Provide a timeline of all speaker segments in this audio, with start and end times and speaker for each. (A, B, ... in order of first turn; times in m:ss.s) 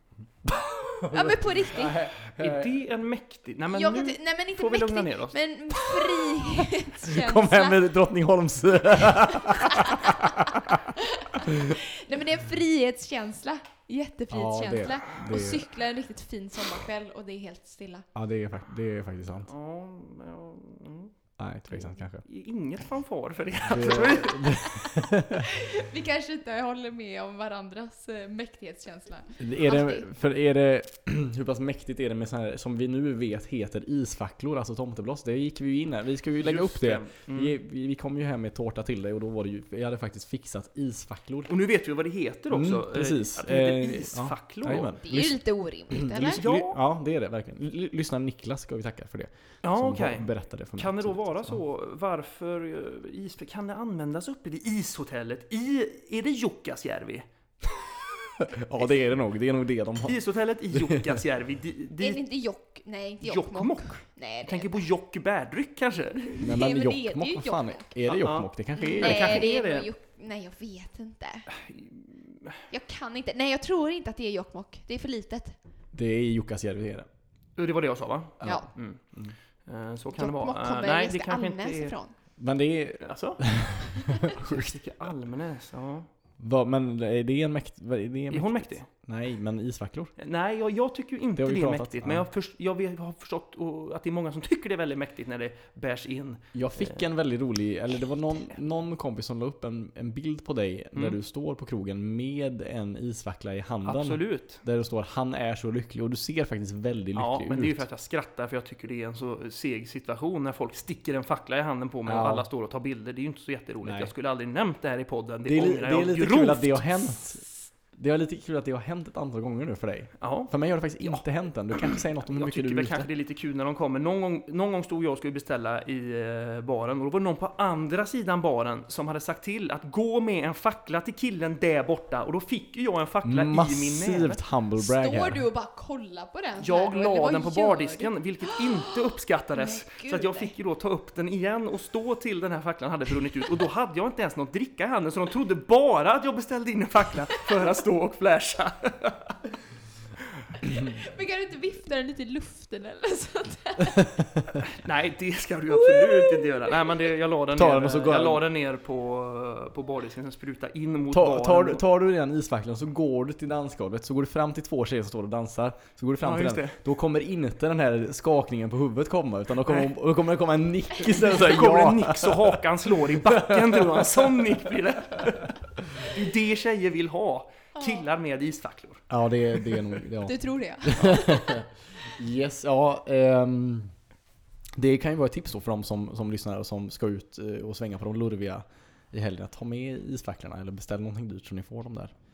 0:00.4-0:02.7 A
0:01.1-0:02.0 B
0:02.4-0:05.4 C
0:03.7-0:07.8 B
0:07.0-0:11.8 A
0:09.3-0:18.1 B
0:14.3-0:15.7 A
0:18.1-0:19.5 A
0:19.4-0:21.1 C
0:21.4-0:22.2 A
0:21.8-0:24.7 C
0:23.6-0:25.5 A
0:25.3-0:30.1 B
0:29.4-0:41.5 A
0:36.4-0:37.5 C
0:41.5-0:44.9 C
0:42.5-0:51.6 A
0:45.0-0:46.4 B
0:46.3-0:46.8 C
0:49.6-0:57.3 C
0:57.6-1:01.2 A
1:00.0-1:02.2 C
1:02.0-1:04.8 B
1:03.2-1:06.4 C
1:06.2-1:07.9 B
1:06.4-1:09.5 A
1:08.1-1:09.9 C
1:08.8-1:11.5 B
1:11.5-1:12.6 C
1:12.7-1:15.6 B
1:15.9-1:17.1 A
1:17.6-1:19.0 C
1:18.4-1:19.4 A
1:19.6-1:21.9 C
1:20.1-1:22.1 B
1:22.4-1:24.8 A
1:23.0-1:23.4 C
1:24.1-1:26.1 C
1:26.4-1:30.1 A
1:28.3-1:28.8 C
1:30.2-1:37.0 C
1:31.4-1:32.3 A
1:36.5-1:47.8 A
1:43.8-1:44.6 C
1:47.1-1:57.1 C
1:52.0-1:52.4 A
1:53.8-1:54.1 A
1:55.4-2:03.1 A
2:00.2-2:00.5 C
2:01.8-2:14.4 C
2:13.2-2:15.4 A
2:14.8-2:20.5 B
2:16.6-2:29.4 C
2:30.7-2:34.1 B
2:33.9-2:34.6 A
2:34.7-2:41.8 C
2:35.7-2:37.1 B
2:37.5-2:38.5 A
2:41.1-2:54.6 A
2:46.2-2:46.8 C
2:49.6-2:49.9 C
2:51.0-2:59.0 C
2:57.8-2:58.0 B
2:59.1-3:03.9 A
3:00.2-3:01.6 B
3:04.8-3:12.1 A